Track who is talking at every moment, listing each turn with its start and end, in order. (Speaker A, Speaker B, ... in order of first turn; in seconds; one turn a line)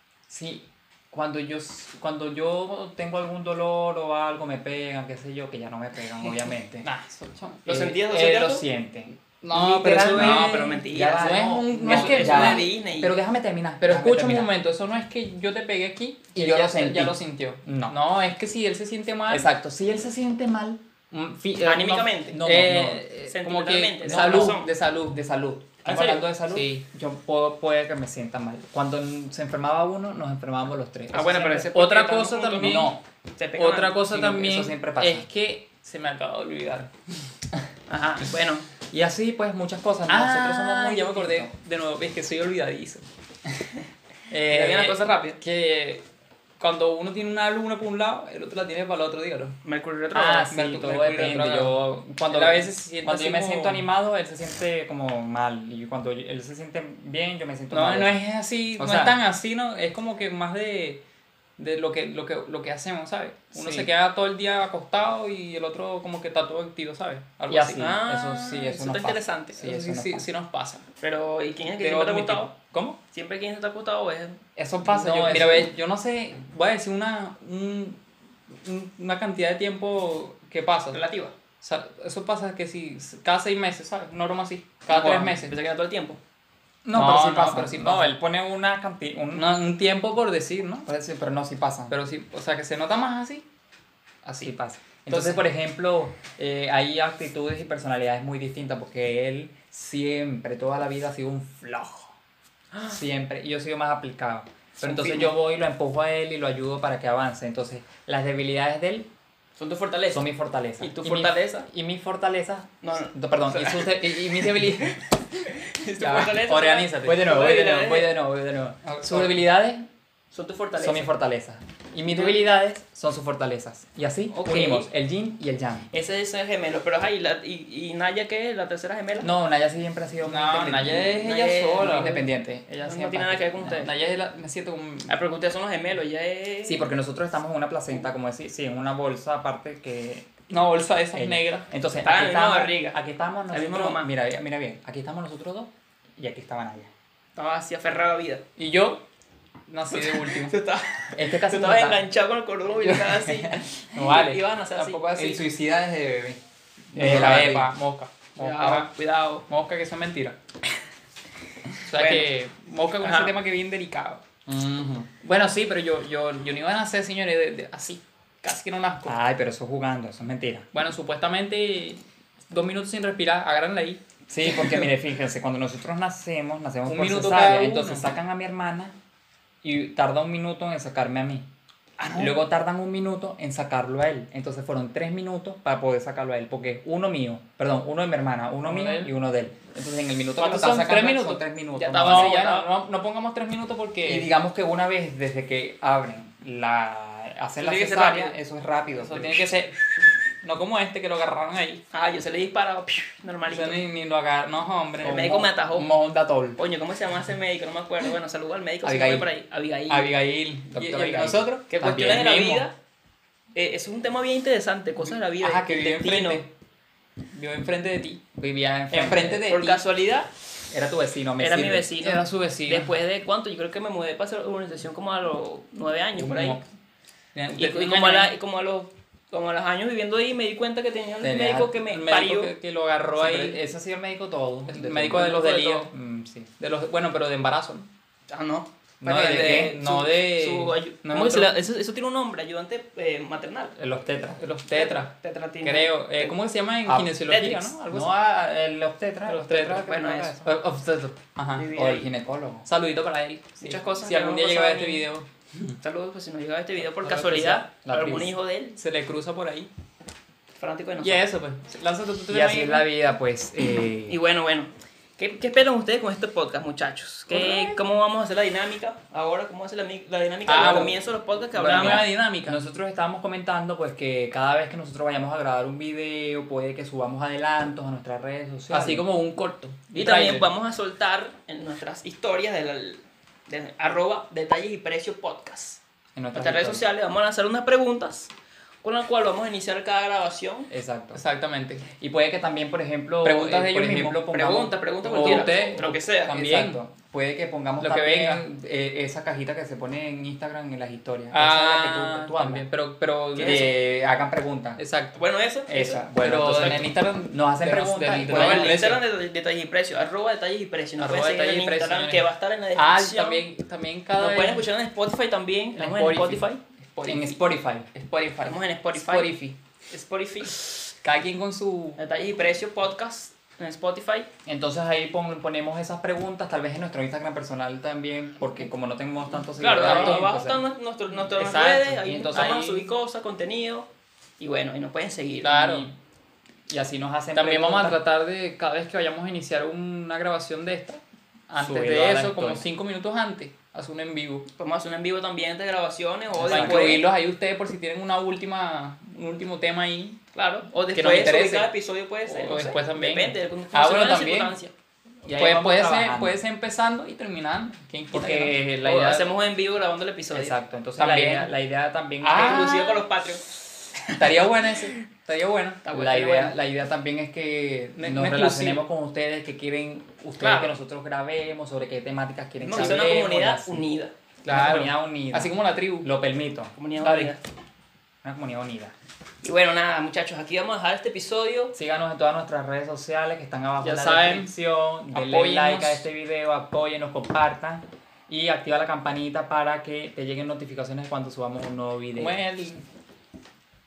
Speaker A: 0.3-6.9
Speaker B: 6.8-7.9
Speaker C: 7.7-8.6
Speaker A: 7.7-14.5
Speaker B: 9.4-12.7
Speaker C: 9.5-13.1
Speaker B: 13.8-19.5
Speaker A: 16.3-18.0
Speaker A: 19.3-23.1
Speaker B: 21.2-25.2
Speaker C: 21.6-22.4
Speaker C: 23.2-24.7
Speaker A: 24.0-31.7
Speaker C: 25.8-26.3
Speaker B: 26.5-26.8
Speaker C: 31.1-34.0
Speaker B: 31.5-33.0
Speaker A: 32.6-32.9
Speaker B: 33.6-36.9
Speaker A: 34.1-35.3
Speaker C: 37.9-38.7
Speaker A: 38.9-41.5
Speaker B: 40.1-43.0
Speaker B: 44.3-46.0
Speaker C: 44.5-45.4
Speaker B: 46.6-49.6
Speaker C: 49.6-50.5
Speaker A: 50.1-58.2
Speaker B: 50.5-53.9
Speaker B: 57.7-61.0
Speaker A: 58.8-59.2
Speaker B: 61.6-67.9
Speaker A: 63.5-63.9
Speaker A: 67.5-70.3
Speaker C: 67.5-69.6
Speaker B: 69.6-70.8
Speaker C: 71.0-72.5
Speaker B: 71.8-73.0
Speaker C: 73.1-74.4
Speaker A: 74.6-75.7
Speaker B: 74.6-78.0
Speaker B: 78.5-81.0
Speaker C: 80.9-81.3
Speaker B: 81.6-85.5
Speaker C: 84.9-86.2
Speaker A: 86.8-89.5
Speaker B: 86.9-88.2
Speaker B: 89.3-90.8
Speaker A: 90.8-91.9
Speaker B: 91.9-93.4
Speaker B: 94.2-94.5
Speaker A: 94.4-102.1
Speaker B: 95.1-95.4
Speaker C: 102.7-103.0
Speaker A: 102.9-109.1
Speaker C: 104.8-105.3
Speaker C: 109.6-110.3
Speaker A: 110.1-115.0
Speaker C: 110.8-111.7
Speaker C: 112.8-114.1
Speaker B: 114.3-115.0
Speaker C: 115.5-118.2
Speaker A: 116.0-116.4
Speaker B: 116.1-117.2
Speaker A: 117.0-119.8
Speaker B: 118.8-119.4
Speaker C: 120.3-121.1
Speaker A: 120.8-125.9
Speaker C: 122.1-122.4
Speaker C: 124.3-124.9
Speaker C: 125.9-129.3
Speaker A: 129.2-131.1
Speaker B: 130.2-132.2
Speaker C: 131.0-132.3
Speaker A: 131.8-132.8
Speaker B: 132.7-135.1
Speaker C: 132.8-133.9
Speaker C: 135.1-136.9
Speaker A: 136.6-140.3
Speaker B: 140.5-141.7
Speaker A: 141.1-146.9
Speaker C: 142.0-143.0
Speaker C: 143.5-144.1
Speaker C: 147.3-148.4
Speaker B: 148.6-149.0
Speaker B: 149.7-150.5
Speaker C: 149.9-155.3
Speaker A: 151.1-152.1
Speaker A: 153.1-154.1
Speaker B: 153.9-155.4
Speaker A: 155.1-156.4
Speaker A: 156.9-157.7
Speaker B: 156.9-158.9
Speaker C: 158.4-159.4
Speaker B: 159.5-160.3
Speaker B: 161.8-164.2
Speaker C: 161.9-162.3
Speaker C: 163.0-163.3
Speaker A: 164.4-165.1
Speaker B: 165.2-169.2
Speaker A: 169.1-170.7
Speaker B: 170.7-174.0
Speaker A: 174.3-178.9
Speaker B: 174.5-174.8
Speaker B: 176.9-178.1
Speaker A: 179.6-181.5
Speaker C: 182.0-182.3
Speaker A: 182.1-192.4
Speaker B: 188.6-189.1
Speaker B: 190.4-194.3
Speaker C: 191.7-192.7
Speaker A: 194.0-199.5
Speaker C: 197.6-198.3
Speaker B: 199.0-199.9
Speaker B: 200.4-201.8
Speaker C: 201.9-203.8
Speaker B: 203.5-206.6
Speaker C: 205.0-205.9
Speaker C: 206.6-210.1
Speaker A: 208.8-209.3
Speaker B: 209.9-212.7
Speaker A: 210.7-212.2
Speaker C: 211.7-212.7
Speaker C: 213.5-216.4
Speaker B: 215.4-216.5
Speaker B: 217.3-218.2
Speaker A: 218.4-219.6
Speaker B: 218.9-219.8
Speaker C: 219.4-220.3
Speaker A: 220.7-221.9
Speaker C: 221.4-226.6
Speaker B: 222.0-222.9
Speaker B: 226.2-226.6
Speaker B: 227.3-228.3
Speaker C: 227.5-232.5
Speaker A: 231.2-231.7
Speaker B: 231.8-233.6
Speaker A: 233.2-236.5
Speaker B: 234.7-235.9
Speaker C: 235.2-235.8
Speaker B: 236.6-237.9
Speaker C: 238.3-243.7
Speaker B: 239.0-241.5
Speaker A: 239.1-239.7
Speaker A: 243.8-244.4
Speaker B: 244.4-245.1
Speaker C: 244.7-246.3
Speaker B: 245.6-248.1
Speaker A: 246.8-247.2
Speaker C: 247.3-247.7
Speaker A: 247.8-250.4
Speaker B: 249.3-249.9
Speaker C: 249.7-250.4
Speaker B: 250.4-251.7
Speaker C: 251.5-252.1
Speaker A: 251.7-252.7
Speaker B: 252.7-255.8
Speaker C: 253.6-255.1
Speaker C: 255.8-258.8
Speaker B: 256.8-258.2
Speaker A: 257.9-258.3
Speaker B: 258.8-259.7
Speaker C: 260.6-261.2
Speaker B: 261.0-262.9
Speaker A: 262.3-264.2
Speaker C: 264.1-272.1
Speaker B: 267.3-267.8
Speaker B: 270.5-271.0
Speaker B: 271.5-272.6
Speaker A: 271.6-279.0
Speaker B: 278.7-280.5
Speaker C: 279.9-285.8
Speaker A: 286.1-286.9
Speaker C: 286.3-288.3
Speaker C: 288.8-290.7
Speaker A: 290.7-291.2
Speaker B: 291.1-291.9
Speaker A: 291.9-302.7
Speaker B: 293.2-294.3
Speaker C: 294.3-296.3
Speaker B: 295.0-296.8
Speaker B: 297.8-298.4
Speaker B: 301.3-303.7
Speaker A: 303.3-304.8
Speaker C: 303.4-303.7
Speaker B: 304.8-305.1
Speaker C: 305.1-306.1
Speaker A: 305.7-309.0
Speaker B: 306.2-309.0
Speaker C: 308.2-313.4
Speaker B: 311.0-314.7
Speaker C: 314.2-316.6
Speaker B: 315.7-317.4
Speaker A: 317.0-317.9
Speaker B: 317.9-319.6
Speaker C: 318.4-319.3
Speaker C: 319.9-320.5
Speaker B: 321.0-322.0
Speaker C: 322.0-324.3
Speaker A: 324.4-330.6
Speaker C: 329.6-333.9
Speaker B: 329.7-330.3
Speaker A: 331.3-332.8
Speaker B: 332.3-332.8
Speaker C: 334.4-335.8
Speaker B: 335.4-335.9
Speaker A: 336.7-338.0
Speaker B: 337.3-344.4
Speaker A: 341.5-342.6
Speaker C: 344.6-347.1
Speaker A: 346.3-347.0
Speaker B: 346.4-350.2
Speaker C: 350.3-354.7
Speaker B: 350.9-351.7
Speaker B: 352.2-354.6
Speaker A: 355.2-356.4
Speaker B: 355.3-359.2
Speaker A: 358.1-359.2
Speaker C: 358.8-360.6
Speaker A: 360.3-362.8
Speaker B: 361.0-361.5
Speaker B: 362.2-363.0
Speaker C: 362.3-363.4
Speaker B: 364.1-365.9
Speaker C: 365.8-366.6
Speaker A: 365.9-373.8
Speaker B: 367.9-368.8
Speaker B: 370.4-370.7
Speaker C: 372.6-374.1
Speaker B: 374.4-376.1
Speaker A: 374.4-376.7
Speaker C: 376.8-377.4
Speaker B: 377.0-377.3
Speaker A: 378.2-378.9
Speaker C: 379.4-381.7
Speaker A: 381.7-392.4
Speaker B: 383.8-384.5
Speaker B: 385.1-386.0
Speaker B: 392.1-392.8